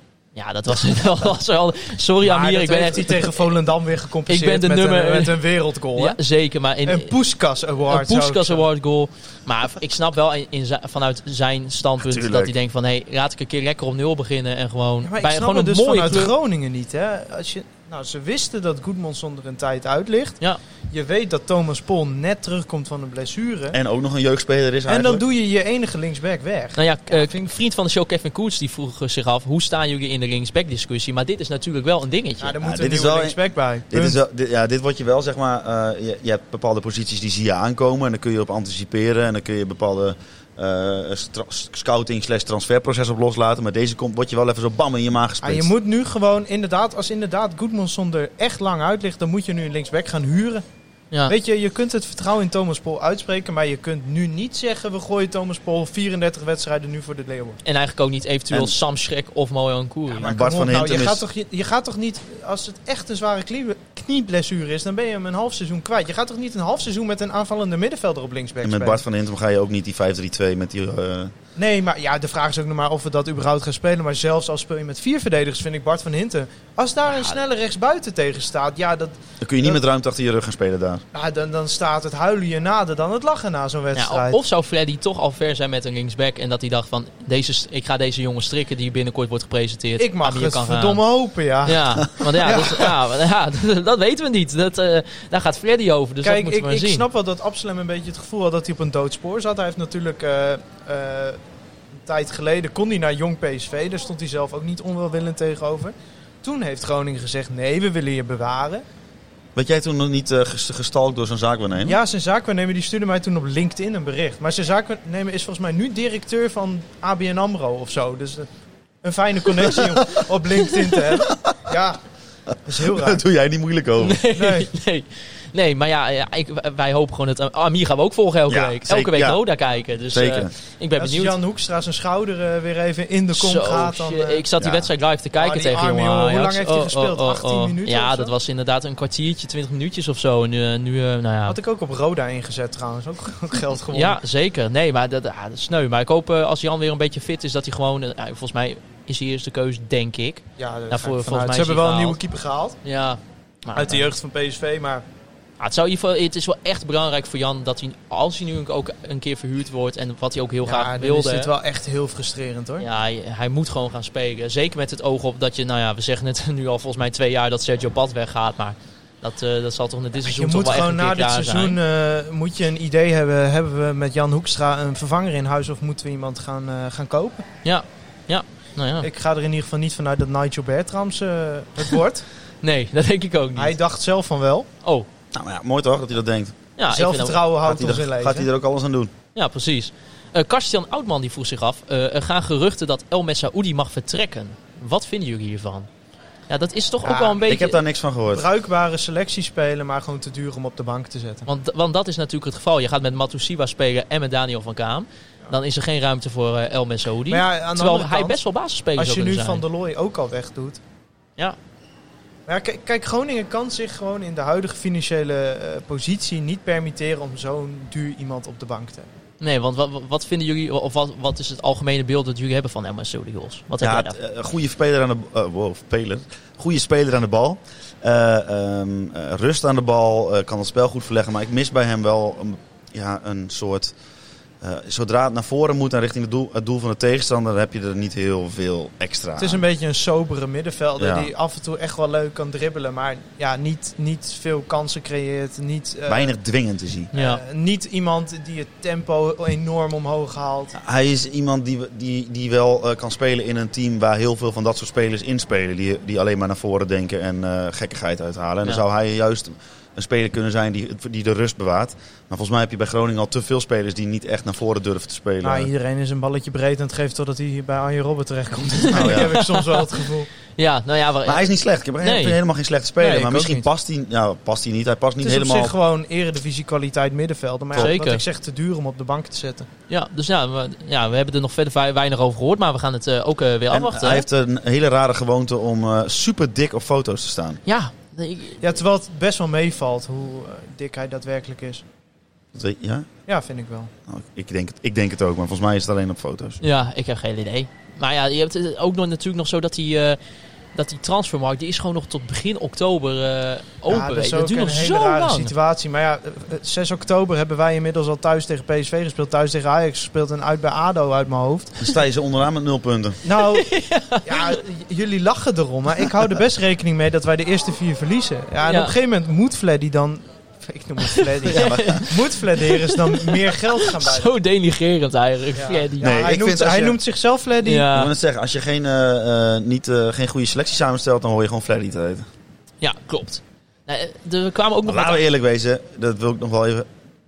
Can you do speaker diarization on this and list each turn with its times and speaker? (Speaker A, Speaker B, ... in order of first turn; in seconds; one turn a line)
Speaker A: 0.3-3.4
Speaker B: 2.2-6.2
Speaker A: 4.3-5.4
Speaker A: 6.0-7.1
Speaker B: 6.8-8.7
Speaker A: 7.9-16.3
Speaker C: 12.0-12.5
Speaker B: 15.0-20.4
Speaker B: 20.9-23.8
Speaker C: 23.7-25.2
Speaker B: 24.9-27.5
Speaker A: 26.8-32.5
Speaker B: 32.4-34.2
Speaker C: 32.6-33.4
Speaker C: 33.9-45.7
Speaker B: 45.4-50.6
Speaker B: 51.3-57.6
Speaker A: 57.6-60.3
Speaker C: 58.5-58.8
Speaker B: 60.2-69.0
Speaker C: 60.2-61.2
Speaker C: 68.6-71.3
Speaker B: 71.6-79.8
Speaker A: 77.1-77.4
Speaker C: 79.4-81.0
Speaker B: 81.1-84.4
Speaker A: 84.0-91.0
Speaker B: 90.0-93.0
Speaker A: 91.7-97.0
Speaker B: 96.2-101.4
Speaker B: 102.1-108.8
Speaker C: 109.5-112.0
Speaker B: 111.8-118.5
Speaker B: 119.0-122.0
Speaker C: 119.8-120.0
Speaker B: 122.7-123.2
Speaker C: 122.8-124.2
Speaker A: 124.0-131.4
Speaker B: 124.3-124.7
Speaker C: 128.5-129.4
Speaker C: 130.1-130.5
Speaker B: 131.0-134.4
Speaker A: 133.3-141.6
Speaker C: 134.6-134.9
Speaker B: 135.4-138.3
Speaker B: 141.5-144.2
Speaker A: 143.9-152.2
Speaker B: 150.6-152.8
Speaker A: 152.8-154.1
Speaker B: 153.7-155.0
Speaker A: 155.6-161.5
Speaker B: 160.6-162.9
Speaker A: 162.8-171.8
Speaker B: 170.2-177.5
Speaker A: 177.6-179.1
Speaker B: 179.0-182.3
Speaker A: 182.6-183.8
Speaker B: 183.6-184.7
Speaker C: 185.3-186.6
Speaker A: 186.8-187.4
Speaker B: 186.9-188.5
Speaker C: 187.6-189.1
Speaker A: 189.3-195.9
Speaker A: 196.5-197.8
Speaker B: 197.0-197.4
Speaker C: 197.4-198.4
Speaker B: 198.3-201.5
Speaker A: 201.5-209.6
Speaker B: 207.3-208.4
Speaker B: 209.0-210.8
Speaker B: 212.5-219.1
Speaker A: 219.4-224.2
Speaker C: 223.8-233.9
Speaker C: 234.6-239.6
Speaker B: 239.4-246.3
Speaker C: 241.0-241.3
Speaker C: 246.1-247.1
Speaker A: 247.1-247.4
Speaker B: 247.1-250.7
Speaker C: 250.8-265.7
Speaker B: 265.4-270.3
Speaker A: 268.9-269.9
Speaker C: 268.9-269.4
Speaker A: 270.6-271.4
Speaker C: 271.2-275.7
Speaker A: 272.0-272.4
Speaker B: 273.0-273.7
Speaker B: 275.2-279.7
Speaker A: 277.8-278.2
Speaker A: 279.9-284.3
Speaker C: 283.7-287.6
Speaker A: 287.7-288.6
Speaker B: 288.6-291.8
Speaker C: 292.5-293.1
Speaker B: 293.3-293.9
Speaker C: 294.1-296.6
Speaker A: 296.6-300.2
Speaker A: 300.8-305.5
Speaker B: 303.9-311.8
Speaker C: 311.8-313.2
Speaker B: 313.2-313.7
Speaker A: 313.4-314.6
Speaker B: 314.3-324.3
Speaker A: 318.6-318.9
Speaker A: 321.1-326.2
Speaker C: 321.5-322.1
Speaker B: 325.6-327.9
Speaker C: 326.0-327.0
Speaker A: 327.6-328.1
Speaker C: 327.9-332.3
Speaker A: 332.8-335.2
Speaker C: 334.9-336.9